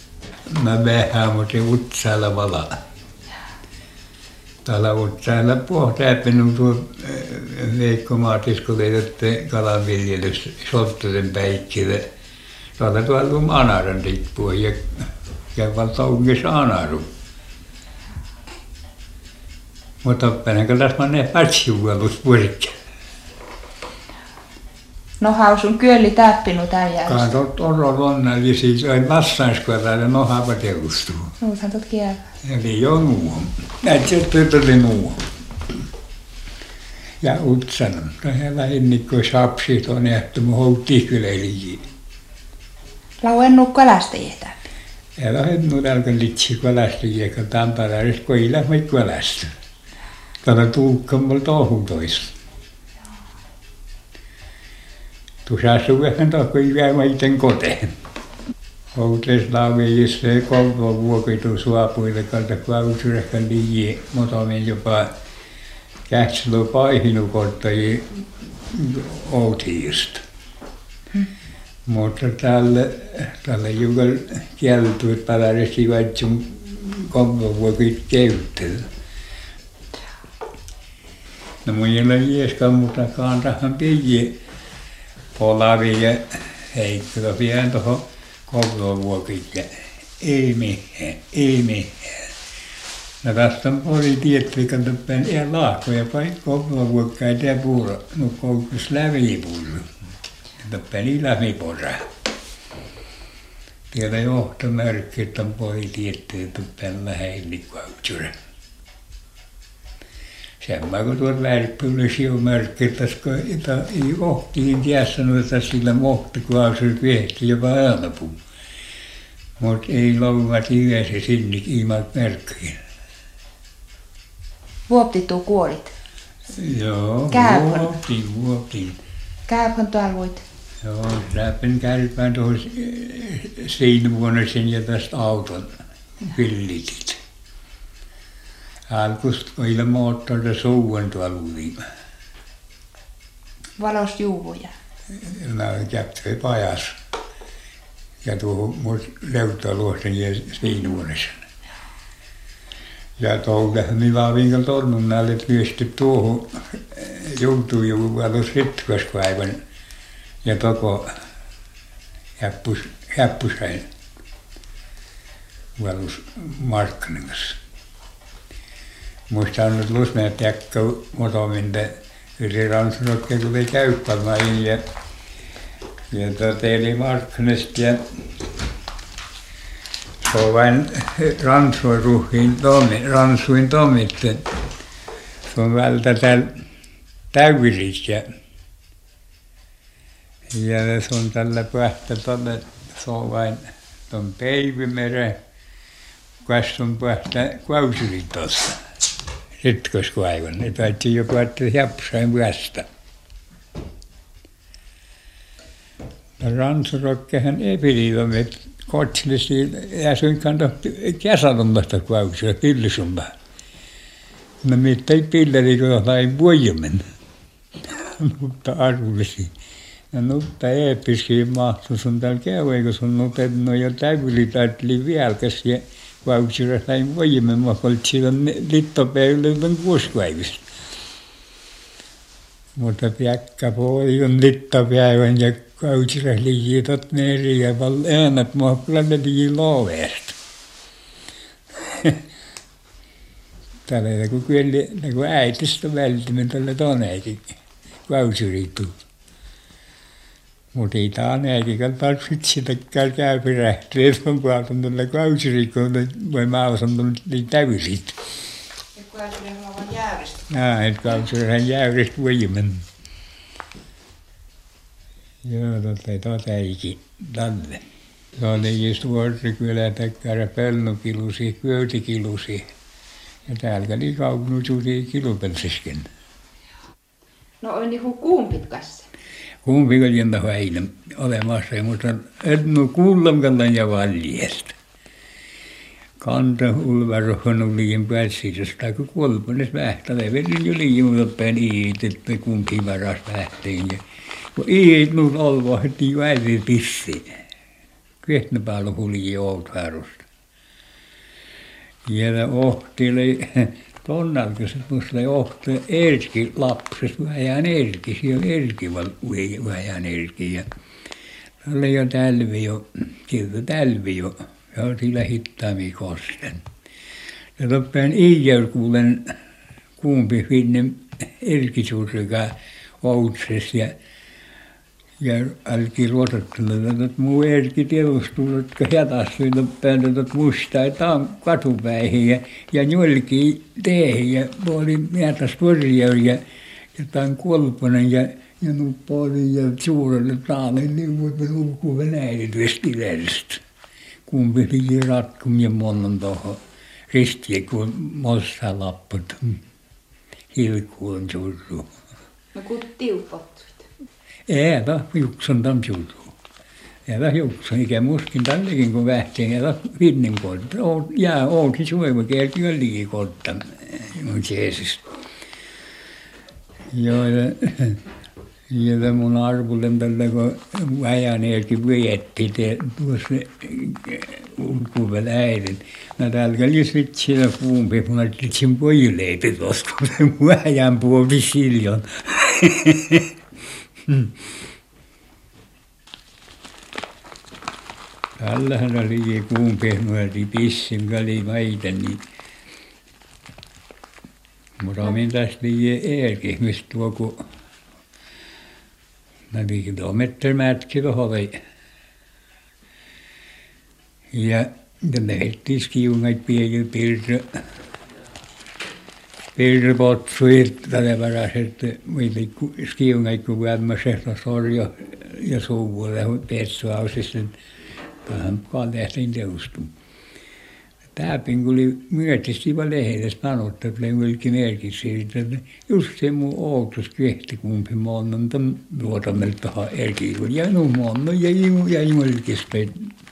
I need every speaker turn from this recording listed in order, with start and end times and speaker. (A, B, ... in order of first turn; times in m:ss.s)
0:00.5-0:02.8 A
0:04.6-0:12.1 A
0:12.8-0:17.1 A
0:20.0-0:22.8 A
0:25.2-0:27.3 B
0:27.1-0:31.3 A
0:31.4-0:32.3 B
0:32.4-0:35.2 A
0:37.2-0:41.8 A
0:43.2-0:44.6 B
0:45.2-0:49.5 A
0:50.4-0:52.4 A
0:55.4-0:57.9 A
0:58.9-1:05.1 A
1:06.1-1:08.1 A
1:08.7-1:10.2 A
1:11.9-1:18.9 A
1:21.6-1:24.4 A
1:25.4-1:32.3 A
1:33.2-1:39.9 A
1:40.6-1:42.1 A
1:43.9-1:48.3 A
1:50.6-1:58.4 A
1:59.6-2:02.8 A
2:04.9-2:05.9 B
2:06.6-2:09.0 A
2:07.3-2:07.9 B
2:09.5-2:10.4 B
2:10.8-2:17.2 A
2:18.9-2:21.8 A
2:23.8-2:24.7 B
2:25.2-2:27.0 A
2:28.2-2:31.4 A
2:33.2-2:39.6 A
2:40.4-2:41.1 A
2:42.4-2:43.9 A
2:45.8-2:47.6 A
2:49.3-2:54.8 A
2:56.1-2:58.1 A
3:00.2-3:04.4 A
3:05.4-3:06.6 A
3:07.3-3:08.2 A
3:10.5-3:15.4 A
3:16.4-3:18.8 A
3:19.6-3:22.9 A
3:26.4-3:33.3 A
3:34.6-3:37.0 A
3:37.9-3:39.5 A
3:40.1-3:50.6 A
3:52.8-4:00.4 A
4:01.8-4:02.2 A
4:03.9-4:07.6 A
4:08.1-4:08.9 A
4:10.7-4:18.2 A
4:18.9-4:20.5 B
4:20.5-4:22.9 A
4:25.4-4:27.8 A
4:28.4-4:32.7 A
4:33.5-4:36.1 A
4:37.6-4:39.1 B
4:39.6-4:44.7 A
4:46.2-4:54.0 A
4:54.6-4:57.3 A
4:58.2-5:00.2 A
5:02.1-5:10.7 A
5:11.6-5:16.6 A
5:17.6-5:19.3 A
5:20.0-5:23.9 A
5:25.2-5:36.4 A
5:36.9-5:43.6 A
5:44.3-5:46.6 A
5:47.1-5:49.6 A
5:50.5-5:51.9 A
5:52.5-5:53.9 B
5:54.5-5:56.3 A
5:57.1-6:05.0 A
6:06.9-6:08.0 A
6:08.7-6:23.3 A
6:24.1-6:24.4 A
6:28.4-6:32.2 A
6:34.8-6:37.4 A
6:39.5-6:41.6 A
6:44.3-6:47.6 A
6:49.6-6:57.6 A
6:58.2-6:59.9 A
7:01.2-7:13.1 A